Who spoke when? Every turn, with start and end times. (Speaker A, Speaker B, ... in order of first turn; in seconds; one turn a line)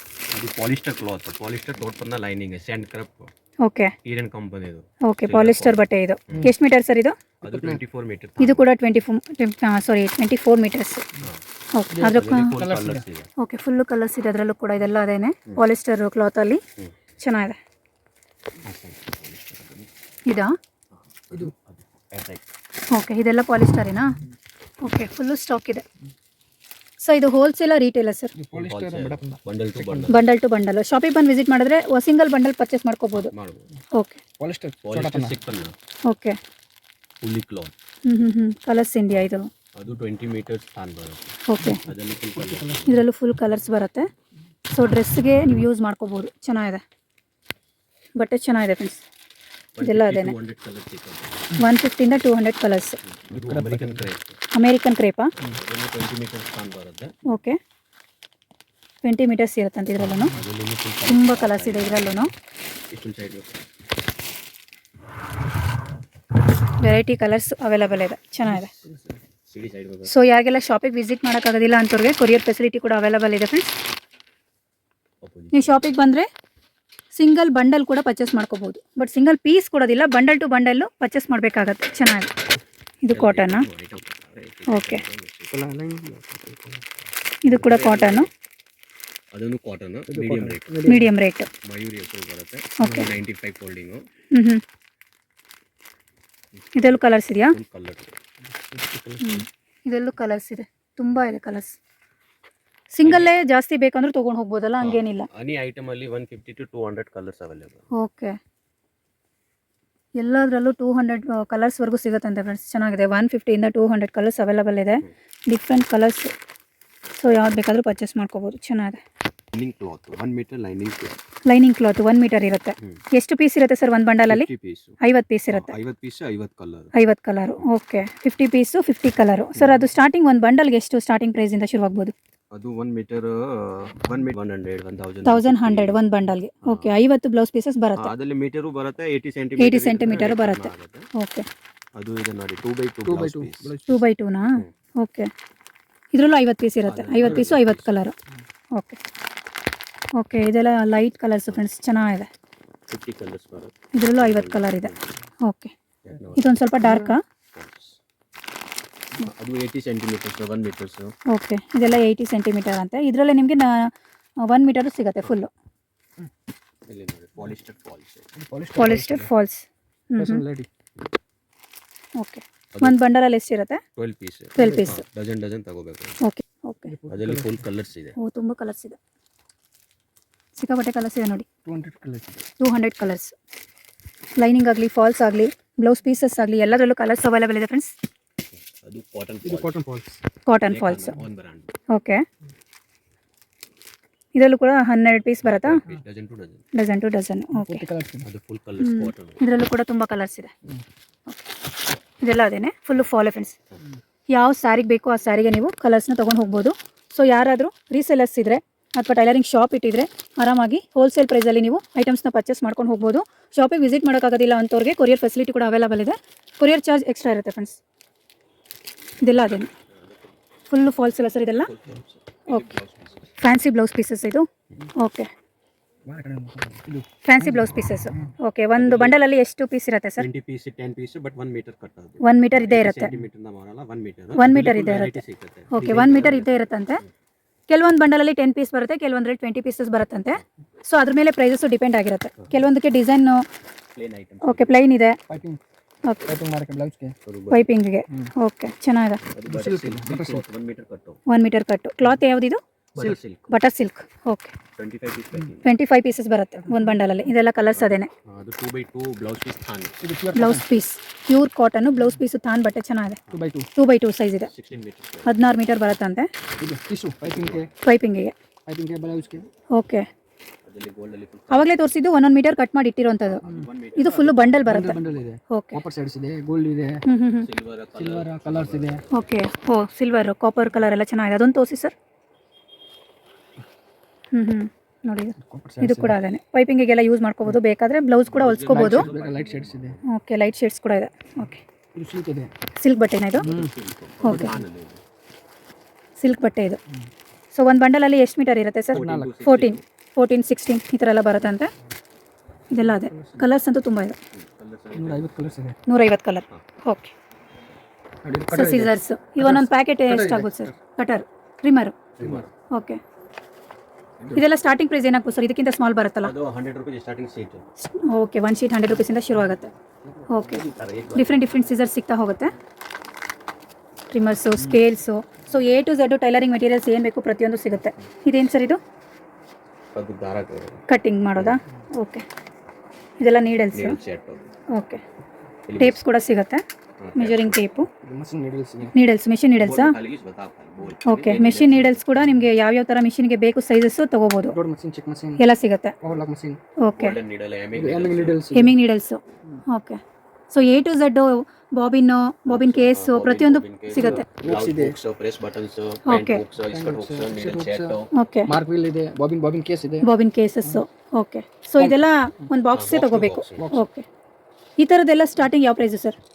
Speaker A: 0.3-3.3
Speaker B: 3.6-3.9
Speaker A: 4.0-6.5
Speaker B: 5.0-7.1
Speaker A: 7.4-8.7
Speaker C: 7.4-7.8
Speaker B: 8.4-11.0
Speaker B: 11.7-12.5
Speaker C: 11.9-13.0
Speaker A: 12.0-13.3
Speaker B: 13.4-16.6
Speaker B: 17.2-17.6
Speaker A: 18.6-19.9
Speaker B: 20.3-20.5
Speaker A: 20.9-22.4
Speaker B: 22.9-24.2
Speaker B: 24.8-25.8
Speaker B: 27.0-28.3
Speaker C: 28.3-30.1
Speaker A: 28.5-30.2
Speaker B: 30.1-33.3
Speaker A: 33.1-33.7
Speaker B: 33.9-34.2
Speaker C: 34.4-35.3
Speaker A: 34.8-35.7
Speaker B: 36.0-36.4
Speaker A: 37.2-37.7
Speaker B: 38.0-39.5
Speaker A: 39.7-43.0
Speaker B: 41.5-41.8
Speaker C: 42.3-43.0
Speaker B: 42.9-44.1
Speaker B: 44.7-46.8
Speaker B: 48.2-49.0
Speaker A: 49.8-51.4
Speaker B: 49.8-50.4
Speaker B: 51.6-53.0
Speaker A: 53.0-54.4
Speaker C: 53.3-54.0
Speaker B: 54.5-55.3
Speaker A: 55.4-57.1
Speaker B: 57.3-57.6
Speaker B: 59.0-60.3
Speaker A: 60.3-62.1
Speaker B: 61.1-62.3
Speaker A: 62.9-63.5
Speaker B: 66.8-68.7
Speaker C: 68.4-69.2
Speaker A: 69.5-70.1
Speaker B: 70.1-73.7
Speaker A: 75.2-75.9
Speaker B: 75.5-76.3
Speaker B: 77.1-82.3
Speaker B: 83.0-83.7
Speaker A: 83.1-85.5
Speaker B: 84.7-85.0
Speaker C: 85.5-86.8
Speaker B: 87.4-88.3
Speaker A: 87.5-88.3
Speaker A: 89.3-90.8
Speaker C: 90.1-91.1
Speaker B: 90.8-91.5
Speaker A: 91.6-94.0
Speaker B: 92.8-93.1
Speaker B: 94.3-94.6
Speaker A: 96.6-98.2
Speaker B: 96.7-97.5
Speaker C: 98.5-99.4
Speaker B: 99.2-101.8
Speaker B: 102.9-105.3
Speaker A: 103.0-103.3
Speaker A: 104.8-107.9
Speaker B: 107.9-108.4
Speaker B: 110.2-116.3
Speaker B: 117.2-119.0
Speaker A: 119.5-121.2
Speaker B: 121.4-124.5
Speaker A: 124.3-125.0
Speaker B: 125.0-125.7
Speaker A: 125.5-126.9
Speaker B: 126.9-132.1
Speaker A: 132.5-136.0
Speaker B: 135.2-138.1
Speaker A: 136.6-136.9
Speaker A: 137.9-141.1
Speaker B: 139.6-141.4
Speaker A: 141.9-143.7
Speaker C: 143.1-144.0
Speaker B: 143.9-145.3
Speaker B: 146.1-148.1
Speaker A: 146.8-147.9
Speaker B: 150.2-152.3
Speaker A: 152.9-155.1
Speaker B: 153.9-154.9
Speaker B: 155.4-155.7
Speaker A: 156.0-156.6
Speaker B: 156.4-157.2
Speaker C: 156.8-157.1
Speaker A: 157.5-158.0
Speaker A: 159.2-161.1
Speaker B: 161.3-163.9
Speaker B: 164.4-165.5
Speaker A: 166.9-168.3
Speaker C: 168.4-169.3
Speaker B: 168.8-170.4
Speaker C: 170.2-170.7
Speaker B: 172.2-173.8
Speaker A: 173.9-176.2
Speaker B: 174.6-175.0
Speaker C: 174.6-174.9
Speaker B: 176.2-176.9
Speaker C: 176.8-177.6
Speaker A: 177.1-178.2
Speaker B: 178.2-179.0
Speaker B: 180.5-181.4
Speaker C: 181.7-182.4
Speaker B: 182.6-183.3
Speaker B: 184.4-187.9
Speaker A: 188.8-189.8
Speaker C: 189.4-190.2
Speaker B: 190.4-191.2
Speaker A: 190.6-191.7
Speaker B: 191.9-192.2
Speaker B: 194.3-195.8
Speaker A: 195.4-196.6
Speaker B: 196.7-197.8
Speaker C: 197.5-198.3
Speaker A: 198.2-199.4
Speaker B: 198.8-200.5
Speaker B: 202.2-203.5
Speaker B: 204.3-217.8
Speaker B: 219.2-219.7
Speaker A: 219.9-220.3
Speaker B: 220.7-221.7
Speaker A: 221.5-223.3
Speaker B: 223.4-225.3
Speaker C: 226.1-228.3
Speaker B: 227.2-230.3
Speaker A: 228.8-229.2
Speaker A: 230.2-236.5
Speaker B: 232.2-233.1
Speaker B: 234.3-237.0
Speaker C: 235.9-236.1
Speaker B: 237.7-243.4
Speaker A: 243.9-244.8
Speaker B: 244.4-245.2
Speaker C: 245.3-245.6
Speaker B: 246.0-246.3
Speaker C: 246.2-247.1
Speaker A: 247.2-247.7
Speaker B: 247.5-249.2
Speaker A: 249.3-251.2
Speaker C: 249.5-250.4
Speaker B: 251.3-252.6
Speaker A: 252.9-253.5
Speaker B: 253.5-254.5
Speaker A: 254.8-255.7
Speaker B: 255.6-258.1
Speaker C: 256.6-257.0
Speaker A: 257.7-260.0
Speaker C: 260.0-260.6
Speaker B: 260.3-263.2
Speaker C: 263.3-263.7
Speaker B: 263.8-264.5
Speaker A: 264.4-265.4
Speaker B: 265.2-266.3
Speaker C: 266.6-267.7
Speaker A: 267.2-267.6
Speaker B: 267.8-268.3
Speaker C: 268.7-269.4
Speaker B: 269.7-270.1
Speaker A: 270.6-271.8
Speaker B: 271.5-273.4
Speaker A: 273.3-275.2
Speaker B: 274.0-275.8
Speaker C: 274.6-277.0
Speaker B: 277.1-277.5
Speaker A: 277.4-279.4
Speaker C: 277.9-279.0
Speaker B: 279.1-281.9
Speaker B: 284.3-289.0
Speaker C: 285.4-286.2
Speaker A: 288.3-290.0
Speaker C: 288.7-289.9
Speaker B: 290.1-291.6
Speaker C: 291.9-292.5
Speaker B: 292.8-293.5
Speaker A: 293.4-295.0
Speaker C: 293.4-293.7
Speaker B: 294.2-294.5
Speaker C: 294.3-294.5
Speaker B: 296.2-296.8
Speaker B: 297.5-301.7
Speaker A: 298.9-299.8
Speaker C: 298.9-299.3
Speaker B: 302.7-304.2
Speaker C: 302.8-303.4
Speaker A: 304.3-305.4
Speaker C: 304.9-305.8
Speaker B: 305.9-307.1
Speaker C: 308.2-310.8
Speaker B: 308.5-312.0
Speaker A: 312.2-312.5
Speaker C: 312.2-312.4
Speaker B: 312.7-313.0
Speaker B: 314.3-316.3
Speaker A: 316.2-317.6
Speaker B: 317.8-319.7
Speaker C: 320.0-320.6
Speaker B: 320.3-322.5
Speaker A: 320.6-321.5
Speaker B: 324.1-328.8
Speaker A: 329.9-330.8
Speaker B: 330.9-332.2
Speaker B: 333.2-334.0
Speaker A: 333.7-334.5
Speaker B: 334.7-335.0
Speaker A: 335.7-336.0
Speaker B: 335.8-336.6
Speaker A: 337.0-337.6
Speaker B: 337.1-337.9
Speaker C: 338.0-338.9
Speaker B: 338.9-339.9
Speaker A: 339.6-342.0
Speaker B: 341.0-344.6
Speaker C: 344.5-345.4
Speaker B: 345.4-345.9
Speaker C: 346.0-346.6
Speaker B: 346.8-347.2
Speaker A: 346.9-348.4
Speaker C: 347.7-348.7
Speaker B: 348.5-354.2
Speaker A: 352.5-358.1
Speaker C: 353.9-355.0
Speaker B: 356.1-356.4
Speaker C: 356.7-358.0
Speaker B: 358.1-358.5
Speaker C: 358.5-360.1
Speaker B: 360.0-364.1
Speaker A: 362.7-363.7
Speaker C: 363.6-363.8
Speaker B: 364.8-366.1